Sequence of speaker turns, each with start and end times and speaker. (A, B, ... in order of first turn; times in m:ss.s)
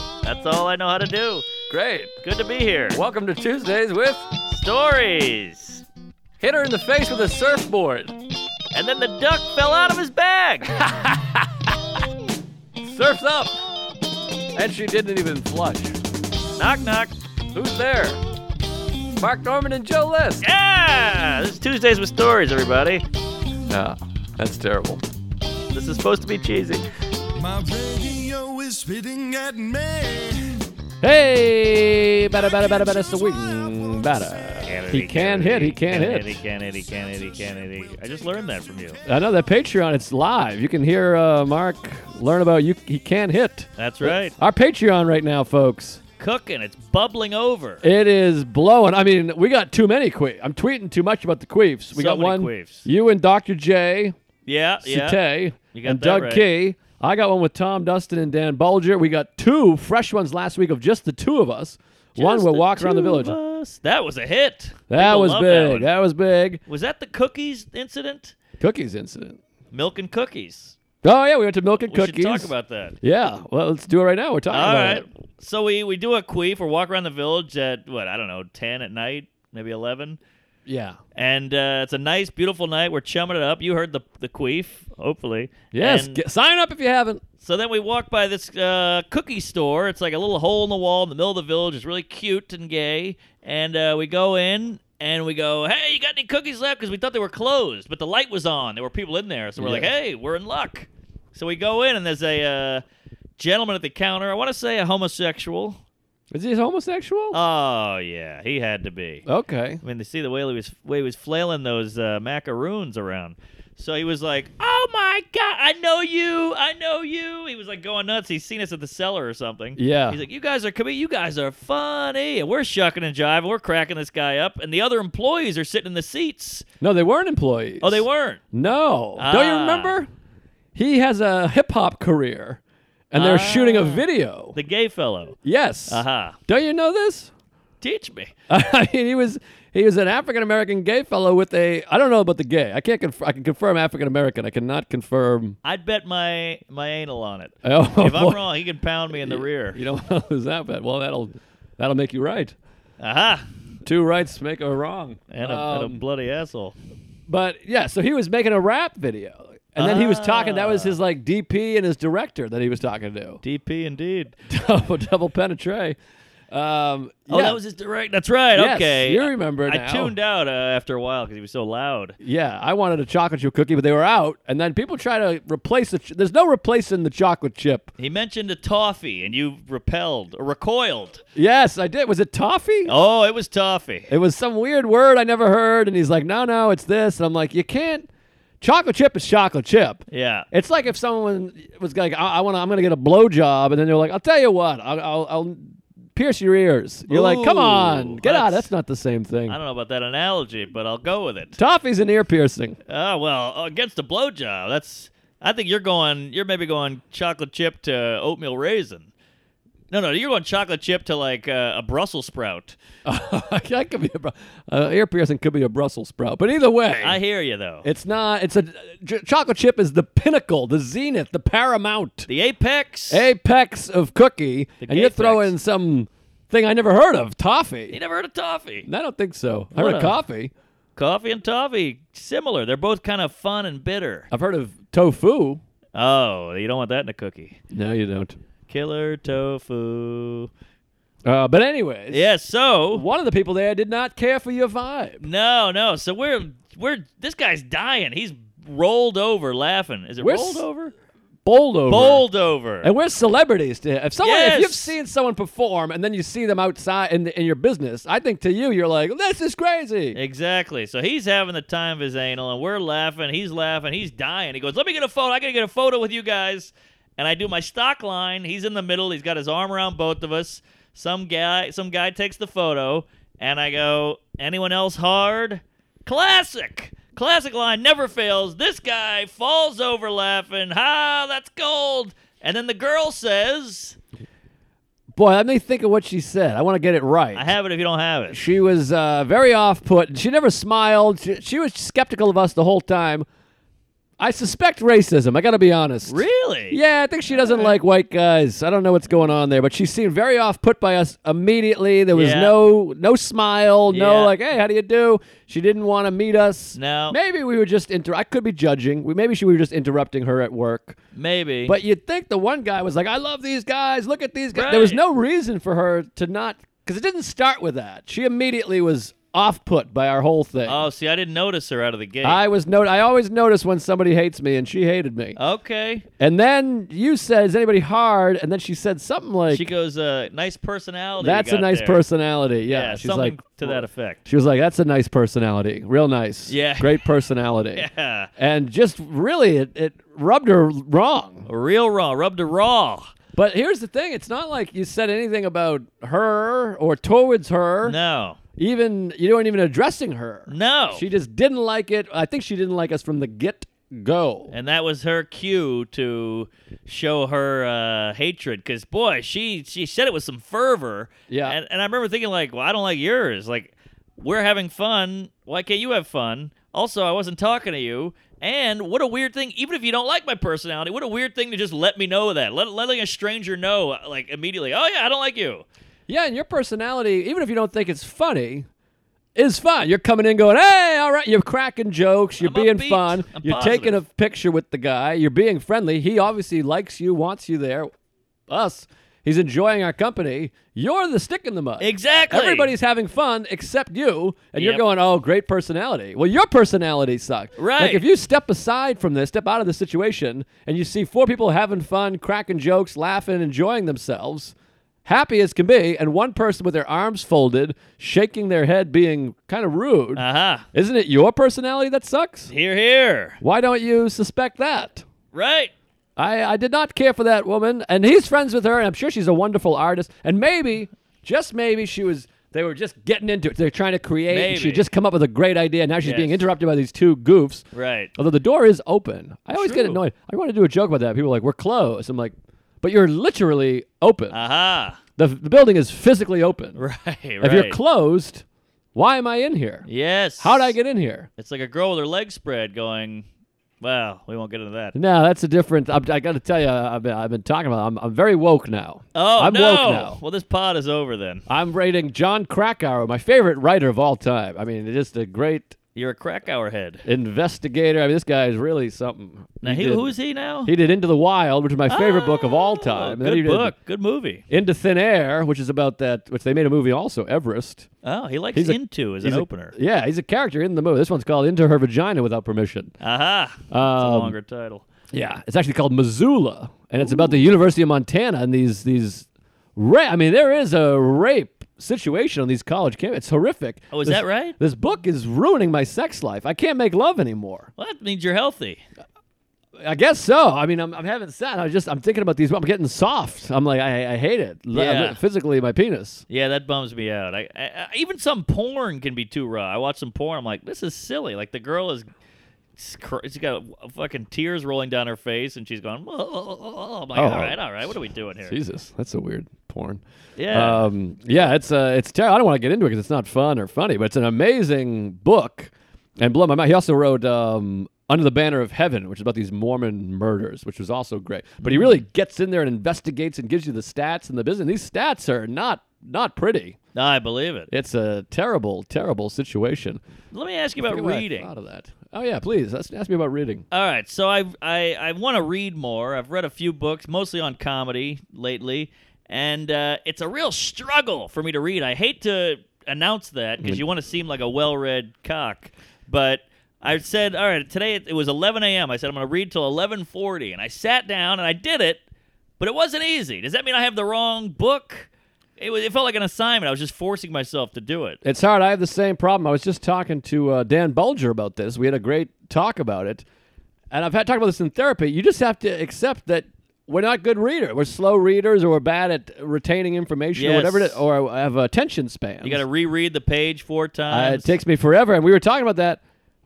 0:00.2-0:01.5 A
0:01.7-0:02.1 B
0:02.2-0:03.0 A
0:02.9-0:04.2 B
0:04.5-0:05.8 A
0:06.4-0:08.1 B
0:08.7-0:10.7 A
0:10.7-0:11.7 B
0:12.8-0:13.5 B
0:14.6-0:16.0 B
0:16.6-0:17.1 A
0:17.5-0:18.2 B
0:19.2-0:20.5 B
0:20.4-0:23.0 A
0:23.7-0:25.0 B
0:25.7-0:26.8 A
0:27.4-0:30.6 C
0:31.0-0:36.4 B
0:34.6-0:39.0 A
0:39.0-0:46.0 B
0:43.8-0:44.3 A
0:46.2-0:47.8 A
0:47.8-0:54.2 B
0:51.9-0:52.8 A
0:54.4-0:55.2 A
0:54.8-1:03.4 B
0:55.7-0:56.4 A
1:02.2-1:05.9 A
1:04.9-1:06.6 B
1:06.7-1:08.4 A
1:08.6-1:09.4 B
1:09.7-1:10.8 A
1:11.0-1:15.0 B
1:11.9-1:13.0 A
1:14.5-1:20.2 A
1:20.6-1:21.0 B
1:21.1-1:26.2 A
1:25.7-1:27.2 B
1:27.4-1:42.8 A
1:39.6-1:39.9 B
1:43.4-1:45.8 A
1:46.3-1:47.4 B
1:47.3-1:49.2 A
1:49.3-1:49.8 B
1:49.8-2:06.6 A
1:59.8-2:00.2 B
2:06.8-2:10.1 B
2:07.8-2:08.4 A
2:09.2-2:10.0 A
2:10.7-2:12.6 B
2:13.1-2:14.6 B
2:13.1-2:16.4 A
2:15.4-2:17.3 B
2:17.8-2:18.3 A
2:18.5-2:25.6 B
2:25.6-2:29.8 A
2:27.6-2:28.4 B
2:29.1-2:32.5 B
2:33.0-2:33.4 A
2:33.8-2:36.0 B
2:35.3-2:36.8 A
2:37.3-2:43.4 B
2:39.8-2:41.0 A
2:43.4-2:44.3 A
2:44.5-2:46.0 B
2:46.5-2:47.6 B
2:47.3-2:52.2 A
2:48.5-2:50.1 B
2:52.2-2:57.9 B
2:58.0-3:01.2 A
3:01.4-3:02.9 B
3:02.8-3:04.1 A
3:04.1-3:08.1 B
3:08.6-3:19.6 B
3:10.1-3:10.5 A
3:17.1-3:18.7 A
3:19.5-3:21.6 A
3:21.6-3:22.8 B
3:22.9-3:29.1 A
3:29.9-3:32.8 A
3:33.0-3:37.2 B
3:37.0-3:37.8 A
3:37.8-3:42.3 B
3:42.3-3:43.3 A
3:43.1-3:48.0 B
3:44.8-3:45.5 A
3:47.9-3:48.9 A
3:48.8-3:50.5 B
3:49.7-3:50.2 A
3:51.0-3:54.3 A
3:54.3-3:55.6 B
3:55.9-3:57.6 A
3:57.7-3:58.4 B
3:58.7-4:00.5 A
4:01.2-4:02.3 B
4:02.1-4:03.0 A
4:02.9-4:05.2 B
4:05.2-4:10.9 A
4:10.2-4:10.6 B
4:11.4-4:12.2 B
4:11.9-4:12.9 A
4:12.8-4:20.2 B
4:14.2-4:14.9 A
4:20.1-4:44.0 A
4:45.1-4:47.5 B
4:47.3-4:48.4 A
4:48.3-4:53.2 B
4:54.2-5:11.0 B
4:56.1-4:56.8 A
4:57.4-4:57.7 A
5:02.1-5:02.5 A
5:03.9-5:04.4 A
5:06.8-5:07.2 A
5:11.1-5:11.7 A
5:11.6-5:20.8 B
5:14.5-5:15.0 A
5:20.6-5:22.4 A
5:22.2-5:25.4 B
5:25.4-5:26.1 A
5:26.2-5:29.7 B
5:29.5-5:32.0 A
5:31.2-5:37.8 B
5:32.6-5:34.3 A
5:36.5-5:37.1 A
5:37.7-5:38.3 A
5:38.4-5:41.5 B
5:41.4-5:43.1 A
5:43.3-5:48.0 B
5:47.8-5:48.4 A
5:48.6-5:54.5 B
5:50.5-5:51.0 A
5:54.5-6:15.6 A
6:01.3-6:01.6 B
6:16.1-6:18.6 B
6:19.3-6:27.9 B
6:22.4-6:24.0 A
6:28.5-6:44.5 B
6:31.8-6:32.7 A
6:34.6-6:34.8 A
6:37.6-6:38.0 A
6:45.0-6:52.5 B
6:50.2-6:50.7 A
6:52.5-6:53.4 A
6:53.4-6:55.1 B
6:55.3-6:55.7 A
6:56.2-7:14.4 B
7:04.3-7:04.9 A
7:06.0-7:06.5 A
7:07.7-7:08.1 A
7:09.5-7:10.0 A
7:14.3-7:15.0 A
7:15.2-7:16.8 B
7:16.8-7:17.8 A
7:17.4-7:18.4 B
7:18.9-7:19.9 B
7:19.9-7:20.7 A
7:20.4-7:21.3 B
7:21.4-7:23.2 A
7:23.8-7:25.0 A
7:24.9-7:30.2 B
7:29.1-7:31.4 A
7:31.5-7:35.8 B
7:35.9-7:37.0 A
7:37.0-7:40.1 B
7:39.6-7:40.7 A
7:40.6-7:43.7 B
7:41.9-7:44.4 A
7:44.5-7:47.9 B
7:48.0-7:49.7 A
7:48.5-7:52.9 B
7:53.0-7:54.8 A
7:53.7-7:54.3 B
7:55.1-8:07.7 B
7:57.0-7:57.4 A
8:03.9-8:04.6 A
8:07.8-8:08.8 A
8:09.8-8:16.2 B
8:14.7-8:15.2 A
8:16.3-8:22.1 A
8:22.8-8:28.6 A
8:27.1-8:27.6 B
8:28.4-8:46.8 B
8:30.4-8:30.9 A
8:41.6-8:41.9 A
8:46.9-8:47.7 A
8:47.7-8:50.0 B
8:50.3-8:51.5 A
8:50.8-8:53.6 B
8:53.7-9:12.0 A
9:12.6-9:18.2 A
9:18.2-9:23.2 B
9:23.9-9:32.6 B
9:30.3-9:31.0 A
9:32.4-9:34.5 A
9:34.1-9:36.0 B